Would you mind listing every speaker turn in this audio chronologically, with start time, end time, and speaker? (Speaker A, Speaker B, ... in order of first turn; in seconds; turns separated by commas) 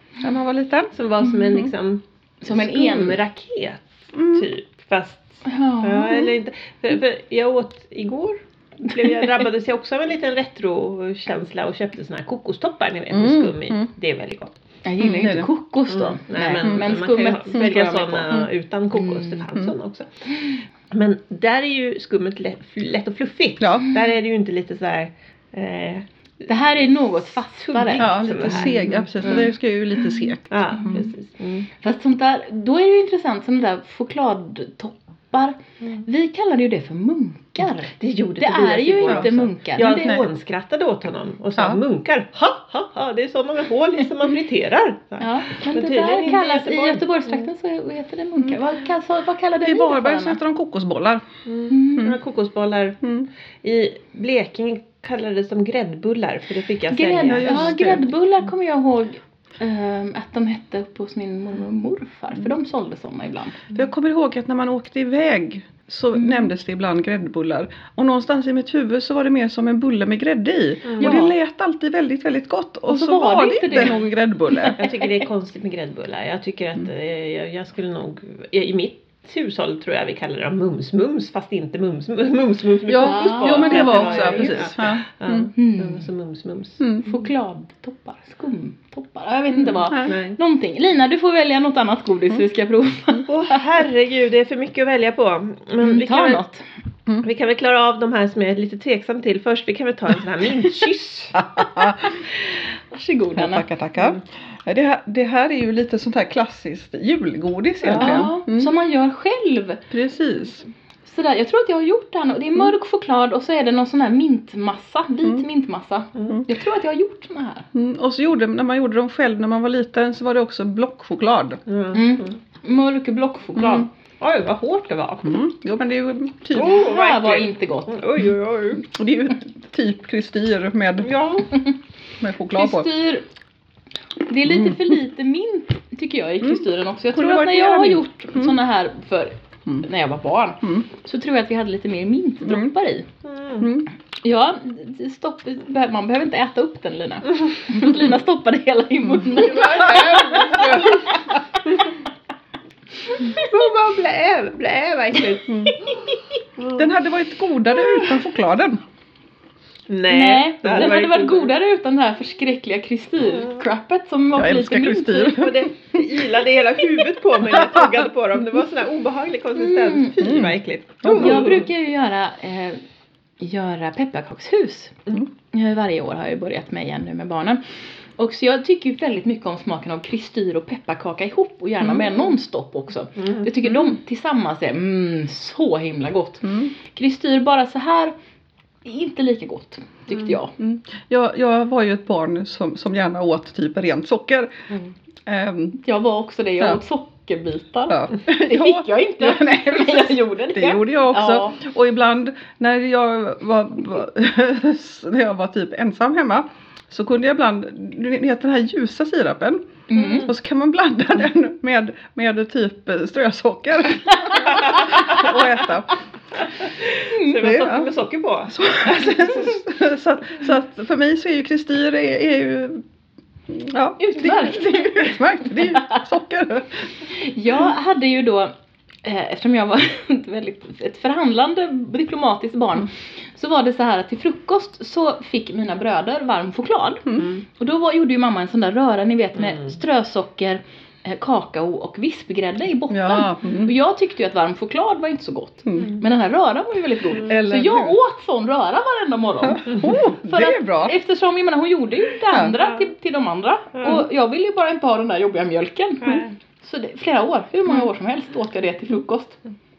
Speaker A: 0.2-0.9, Speaker B: 0.9-14.6, Speaker C: 2.4-3.2, Speaker A: 4.1-4.5, Speaker C: 5.4-6.3, Speaker C: 9.0-9.2, Speaker A: 13.1-13.9, Speaker C: 14.8-18.3, Speaker A: 15.0-15.5, Speaker B: 15.9-29.5, Speaker C: 19.0-19.4, Speaker A: 23.6-23.9, Speaker C: 26.5-28.7, Speaker A: 28.0-31.1, Speaker C: 29.2-29.5, Speaker B: 30.5-31.7, Speaker C: 31.8-40.2, Speaker B: 38.0-47.5, Speaker A: 41.5-41.8, Speaker C: 45.2-50.4, Speaker A: 49.6-51.2, Speaker B: 51.5-53.0, Speaker C: 51.7-52.1, Speaker A: 53.0-53.3, Speaker B: 53.6-57.8, Speaker C: 56.9-63.7, Speaker A: 57.2-58.1, Speaker A: 63.7-74.8, Speaker B: 70.8-71.2, Speaker C: 71.0-71.3, Speaker C: 72.9-75.2, Speaker B: 74.8-87.0, Speaker A: 82.9-85.5, Speaker C: 83.0-84.6, Speaker C: 85.6-86.1, Speaker C: 87.0-93.8, Speaker B: 90.0-90.4, Speaker B: 93.3-96.4, Speaker C: 95.8-96.6, Speaker B: 97.2-101.5, Speaker A: 101.3-102.2, Speaker C: 102.9-103.7, Speaker A: 103.3-108.7, Speaker B: 107.8-108.3, Speaker C: 108.0-109.8, Speaker A: 109.9-110.6, Speaker C: 111.0-117.7, Speaker B: 116.2-116.4, Speaker A: 117.7-121.6, Speaker B: 121.7-122.4, Speaker C: 121.9-123.9, Speaker A: 123.6-123.9, Speaker B: 124.2-125.3, Speaker A: 125.2-126.8, Speaker B: 126.5-128.8, Speaker C: 126.6-128.0, Speaker A: 128.8-131.1, Speaker B: 131.0-131.5, Speaker A: 132.2-132.9, Speaker C: 132.5-133.2, Speaker C: 134.3-143.1, Speaker A: 134.4-135.0, Speaker A: 136.4-138.6, Speaker A: 142.4-142.7, Speaker B: 143.2-143.7, Speaker A: 143.6-143.9, Speaker C: 144.2-151.2, Speaker A: 149.1-151.4, Speaker B: 149.4-151.1, Speaker B: 153.3-155.7, Speaker A: 155.5-155.8, Speaker C: 155.9-156.4, Speaker B: 156.6-156.9, Speaker A: 156.8-158.8, Speaker B: 159.9-161.5, Speaker C: 160.1-165.4, Speaker B: 163.2-163.6, Speaker A: 164.3-166.3, Speaker B: 165.2-171.6, Speaker A: 167.5-167.9, Speaker C: 169.6-170.1, Speaker A: 170.2-171.6, Speaker C: 171.1-172.8, Speaker C: 173.4-175.0, Speaker C: 175.5-177.6, Speaker C: 178.2-188.1, Speaker A: 181.8-182.3, Speaker B: 183.2-183.5, Speaker A: 183.7-183.9, Speaker A: 186.4-186.7, Speaker C: 188.8-190.5, Speaker A: 190.6-194.7, Speaker A: 195.2-195.8, Speaker C: 195.8-201.6, Speaker A: 197.9-216.0, Speaker C: 209.9-210.3, Speaker B: 214.5-215.3, Speaker B: 216.4-219.2, Speaker C: 217.1-217.4, Speaker A: 217.4-217.9, Speaker A: 218.5-222.8, Speaker A: 223.5-226.9, Speaker C: 224.0-226.0, Speaker C: 227.1-228.5, Speaker C: 229.0-259.4, Speaker A: 242.9-243.7, Speaker A: 247.2-247.9, Speaker A: 249.4-250.9, Speaker B: 252.6-252.9, Speaker B: 253.8-254.1, Speaker B: 256.0-256.3